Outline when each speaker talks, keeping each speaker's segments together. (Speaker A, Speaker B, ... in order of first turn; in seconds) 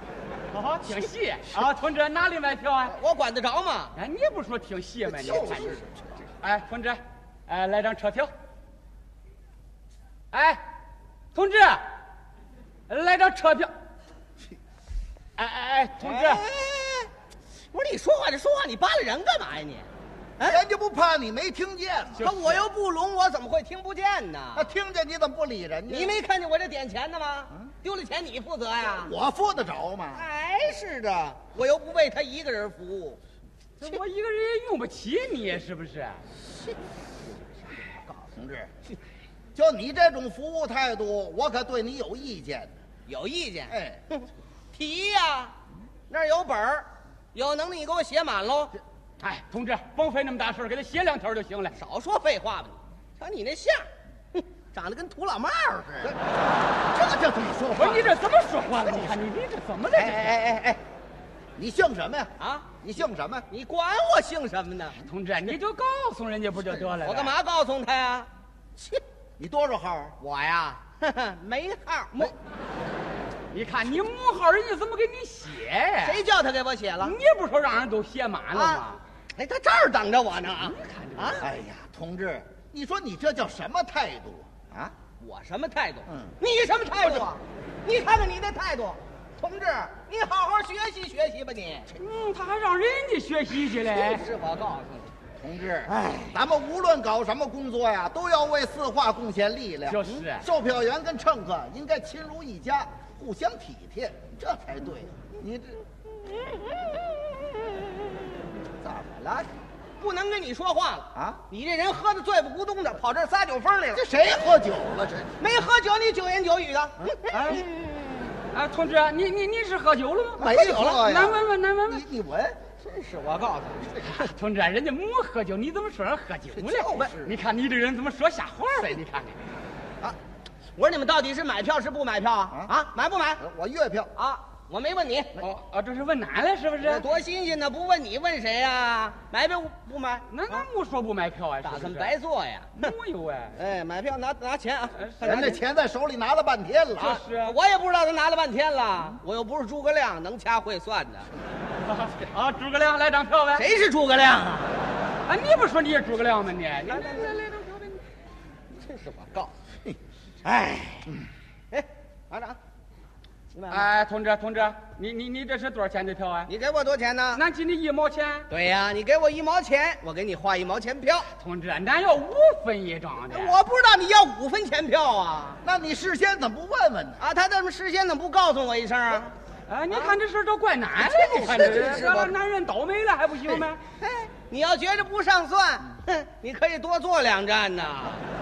Speaker A: 0.5-3.0, 4.0-5.8, 6.4-8.3, 10.3-10.6, 11.3-11.8, 12.9-13.7, 15.4-16.4, 22.2-22.6, 33.8-36.2, 49.2-51.8, 57.8-60.4, 65.0-67.3, 73.5-76.2, 77.0-79.0, 80.5-81.5, 92.0-94.2, 99.9-100.5, 118.5-122.0, 124.0-129.4, 135.4-137.1, 140.3-142.2, 142.8-143.6, 145.0-145.6, 146.9-147.6, 151.8-153.7, 155.3-158.0, 163.7-166.5, 167.3-168.5, 171.4-173.6, 179.7-183.8
Speaker B: 2.9-4.0, 16.0-17.1, 17.7-20.6, 22.2-24.7, 25.9-29.1, 30.1-33.2, 43.1-45.5, 46.1-48.8, 51.8-56.2, 62.4-62.7, 63.5-65.0, 67.0-68.3, 70.2-72.3, 76.0-77.2, 78.5-81.4, 85.2-91.9, 93.8-95.1, 95.9-96.3, 106.5-107.9, 110.0-114.0, 115.4-118.0, 122.8-123.9, 130.8-133.4, 134.2-135.4, 136.8-140.7, 141.6-142.9, 143.6-145.6, 147.0-151.3, 153.6-154.7, 156.9-157.5, 158.7-159.5, 160.4-161.1, 161.7-162.6, 163.5-163.9, 166.5-167.4, 168.5-171.3, 173.2-175.6, 177.2-179.3, 179.9-180.2, 181.0-182.3, 184.0-188.2
Speaker C: 5.0-6.2, 20.4-22.3, 24.6-26.2, 28.9-30.3, 38.3-38.7, 39.5-42.7, 43.7-44.0, 56.9-58.1, 59.9-60.8, 61.6-63.5, 68.8-70.2, 81.4-84.9, 86.1-86.4, 87.0-87.3, 95.4-105.8, 108.8-109.5, 111.1-111.4, 113.9-115.3, 117.0-117.7, 120.4-122.6, 126.5-127.4, 133.4-134.1, 145.2-147.2, 175.6-177.2